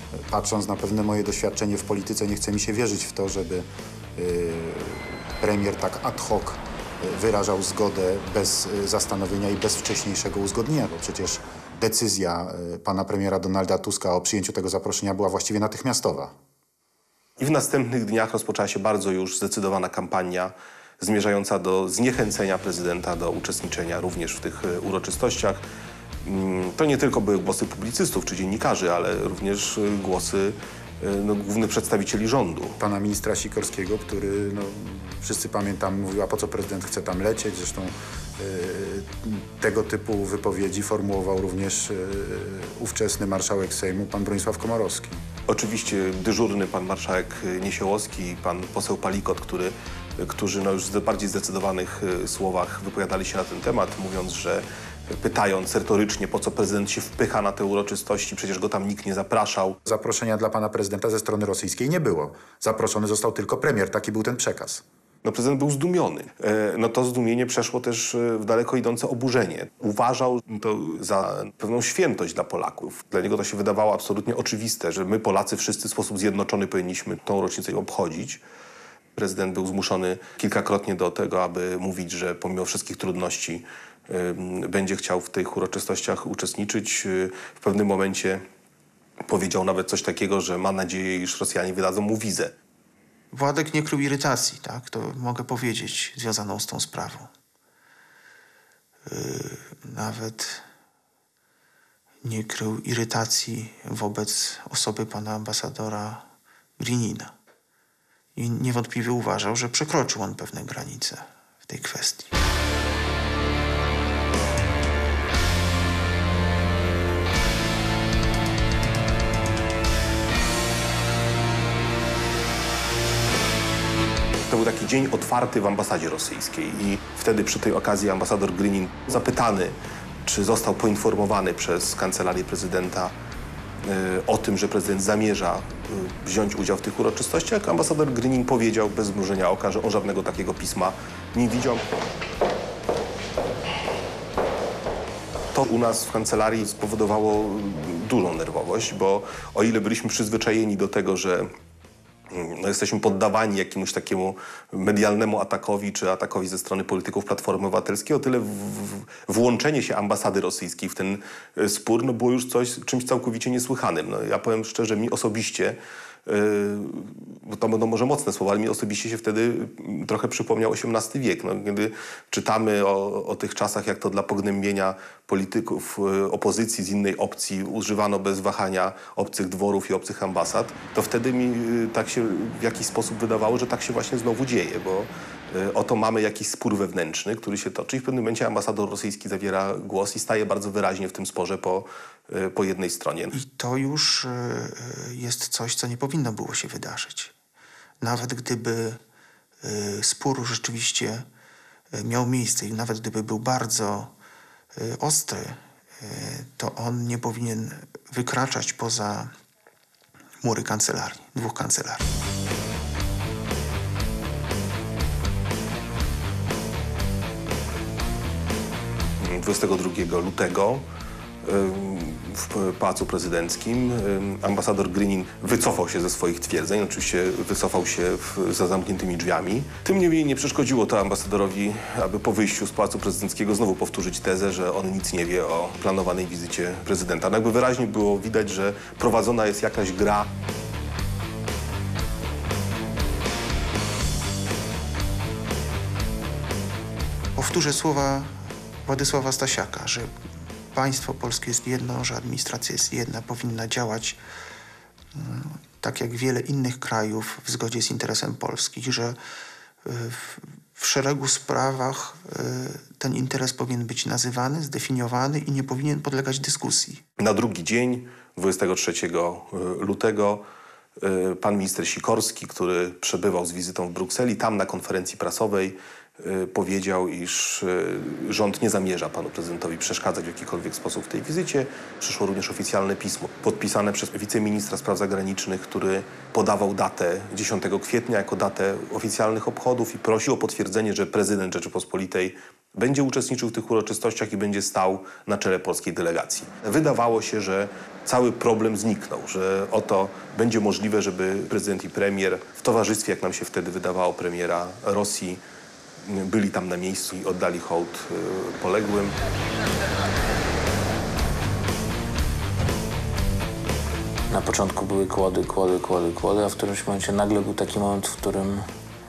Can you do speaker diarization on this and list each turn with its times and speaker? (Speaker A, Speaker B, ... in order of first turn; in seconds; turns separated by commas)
Speaker A: 0.2-16.3, Speaker B: 17.4-25.6, Speaker B: 26.2-32.8, Speaker A: 32.8-45.2, Speaker B: 45.5-59.8, Speaker A: 59.9-64.8, Speaker B: 65.2-78.4, Speaker B: 79.2-88.4, Speaker B: 89.2-92.5, Speaker C: 93.3-97.3, Speaker C: 99.1-100.6, Speaker C: 102.2-106.2, Speaker C: 106.8-107.3, Speaker C: 108.3-112.3, Speaker B: 124.5-133.1, Speaker B: 133.8-141.8, Speaker B: 145.5-151.5, Speaker B: 152.3-193.3, Speaker C: 193.3-197.3, Speaker C: 198.0-199.0, Speaker C: 199.6-201.2, Speaker C: 201.9-204.1, Speaker C: 204.8-209.3, Speaker C: 210.4-212.0, Speaker B: 219.2-220.8, Speaker B: 221.4-240.3, Speaker C: 247.3-248.3, Speaker C: 248.8-250.1, Speaker C: 250.7-254.2, Speaker C: 255.1-259.2, Speaker C: 259.9-267.0, Speaker B: 267.2-270.4, Speaker B: 271.0-305.4, Speaker B: 306.0-309.1, Speaker D: 314.3-318.6